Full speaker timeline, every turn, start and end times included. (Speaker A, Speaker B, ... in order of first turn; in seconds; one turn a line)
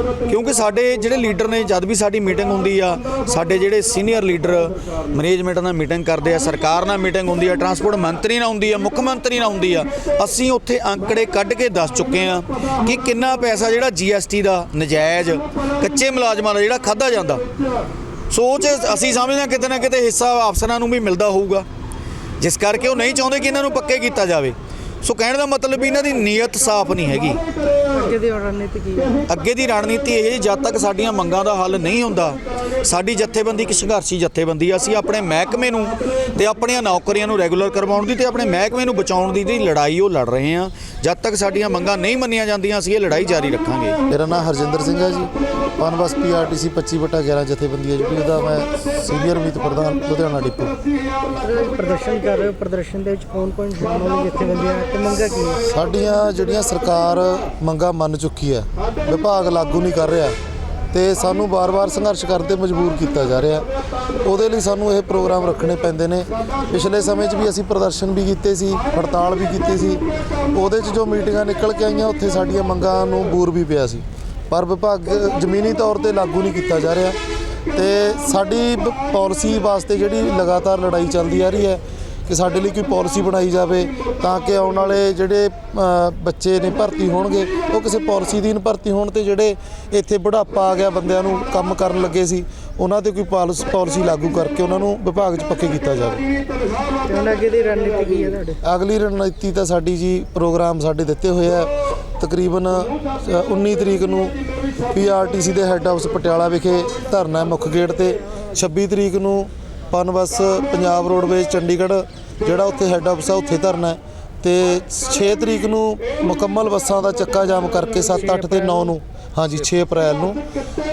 Speaker A: 0.3-17.4
Speaker A: 18.3-21.7
Speaker A: 22.4-27.4
Speaker B: 27.9-29.2
Speaker A: 29.3-44.0
Speaker C: 44.1-50.8
Speaker B: 51.4-55.6
Speaker C: 55.6-60.4
Speaker C: 60.9-63.6
Speaker C: 64.2-70.0
Speaker C: 70.5-77.2
Speaker C: 77.7-96.2
Speaker B: 97.1-98.6
Speaker C: 98.6-104.3
Speaker C: 104.9-120.4